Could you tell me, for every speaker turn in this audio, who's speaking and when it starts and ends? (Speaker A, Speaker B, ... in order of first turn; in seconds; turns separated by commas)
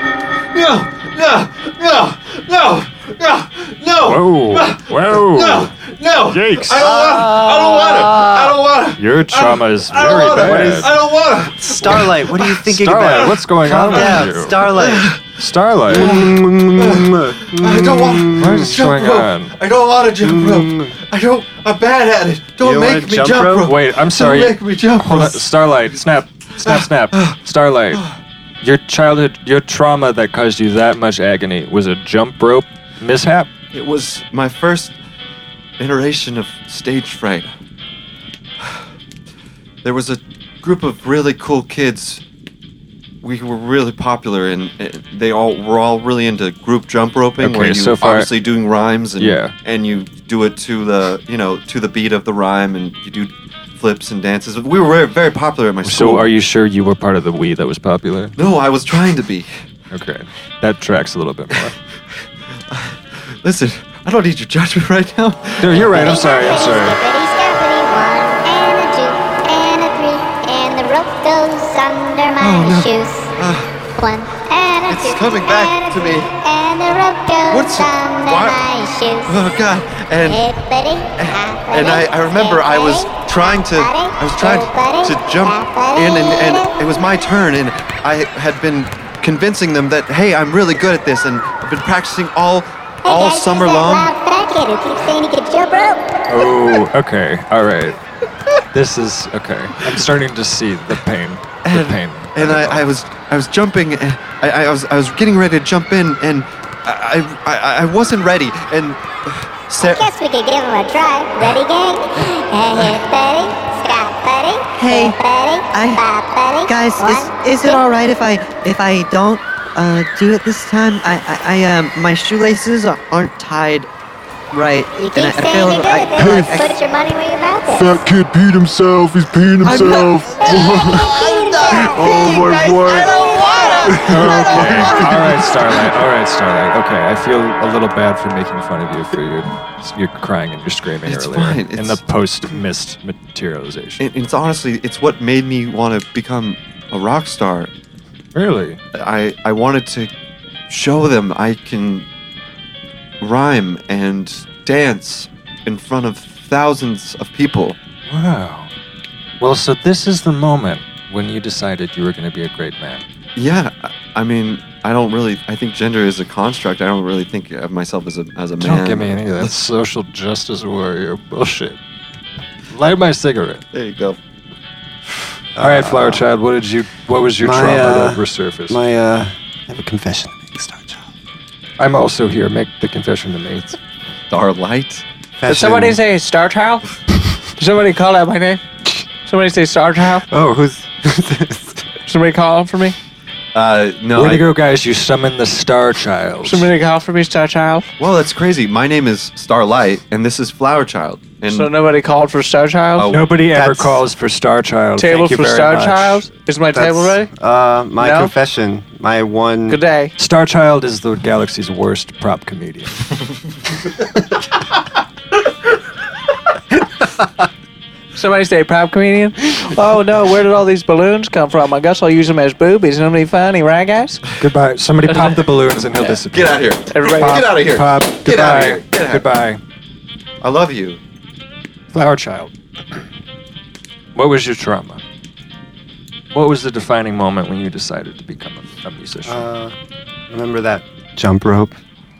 Speaker A: 0.5-12.6, Speaker B: 4.0-5.7, Speaker B: 6.3-7.0, Speaker C: 6.8-8.2, Speaker B: 9.0-10.9, Speaker C: 10.0-10.9, Speaker C: 11.6-15.1, Speaker B: 12.6-14.8, Speaker A: 13.7-15.3, Speaker B: 15.3-16.2, Speaker A: 15.9-25.5, Speaker C: 15.9-18.7, Speaker B: 18.4-19.5, Speaker C: 20.2-20.9, Speaker C: 22.6-23.7, Speaker B: 23.6-28.0, Speaker A: 26.6-27.4, Speaker B: 28.6-33.5, Speaker A: 33.7-35.0, Speaker A: 35.8-37.5, Speaker A: 38.6-38.9, Speaker A: 39.8-42.2, Speaker A: 43.2-56.3, Speaker B: 47.4-48.3, Speaker B: 49.2-49.5, Speaker B: 55.8-58.3, Speaker A: 58.4-59.5, Speaker B: 59.9-61.7, Speaker A: 61.7-66.2, Speaker B: 65.6-67.0, Speaker D: 65.9-73.3, Speaker A: 72.4-73.8, Speaker D: 74.0-79.4, Speaker A: 74.9-76.3, Speaker A: 77.5-78.6, Speaker A: 79.2-80.4, Speaker D: 80.2-83.2, Speaker A: 81.2-94.1, Speaker D: 83.7-86.7, Speaker D: 93.0-96.1, Speaker B: 96.3-98.0, Speaker B: 98.7-102.8, Speaker A: 101.6-110.1, Speaker D: 109.8-117.8, Speaker E: 114.7-115.2, Speaker E: 115.7-116.0, Speaker E: 116.7-123.9, Speaker E: 124.5-126.7, Speaker D: 124.9-128.0, Speaker F: 126.2-126.5, Speaker F: 127.8-131.2, Speaker E: 129.6-135.3, Speaker D: 130.4-132.2, Speaker F: 131.8-133.3, Speaker D: 133.3-133.8, Speaker F: 133.9-135.3, Speaker B: 134.0-144.0, Speaker A: 141.1-142.0, Speaker A: 144.0-147.7, Speaker B: 148.3-148.8, Speaker A: 148.9-150.1, Speaker A: 150.7-152.1, Speaker A: 153.2-157.8, Speaker B: 158.1-158.7, Speaker B: 159.4-163.0, Speaker A: 163.3-169.6, Speaker B: 168.6-171.8, Speaker B: 172.7-173.6, Speaker A: 173.7-174.2, Speaker C: 175.6-176.3, Speaker B: 175.6-178.8, Speaker C: 177.4-181.0, Speaker B: 181.8-183.8, Speaker A: 184.3-185.0, Speaker C: 185.4-186.0, Speaker G: 185.5-186.8, Speaker G: 187.6-188.6, Speaker G: 189.2-190.2, Speaker C: 190.3-191.9, Speaker G: 192.1-192.9, Speaker A: 193.5-194.4, Speaker B: 194.1-196.7, Speaker G: 196.4-197.9, Speaker A: 198.0-201.7, Speaker G: 201.5-203.1, Speaker A: 202.9-203.3, Speaker B: 203.1-206.3, Speaker C: 203.5-204.0, Speaker G: 205.0-207.3, Speaker C: 206.7-209.8, Speaker G: 208.0-208.3, Speaker G: 209.7-210.1, Speaker B: 210.2-213.0, Speaker G: 218.1-224.2, Speaker B: 224.4-229.6, Speaker G: 225.1-225.4, Speaker A: 226.2-229.3, Speaker G: 226.9-227.6, Speaker A: 230.4-231.0, Speaker B: 231.9-232.5, Speaker B: 234.1-235.0, Speaker B: 236.3-239.5, Speaker C: 239.2-239.7, Speaker C: 240.3-241.8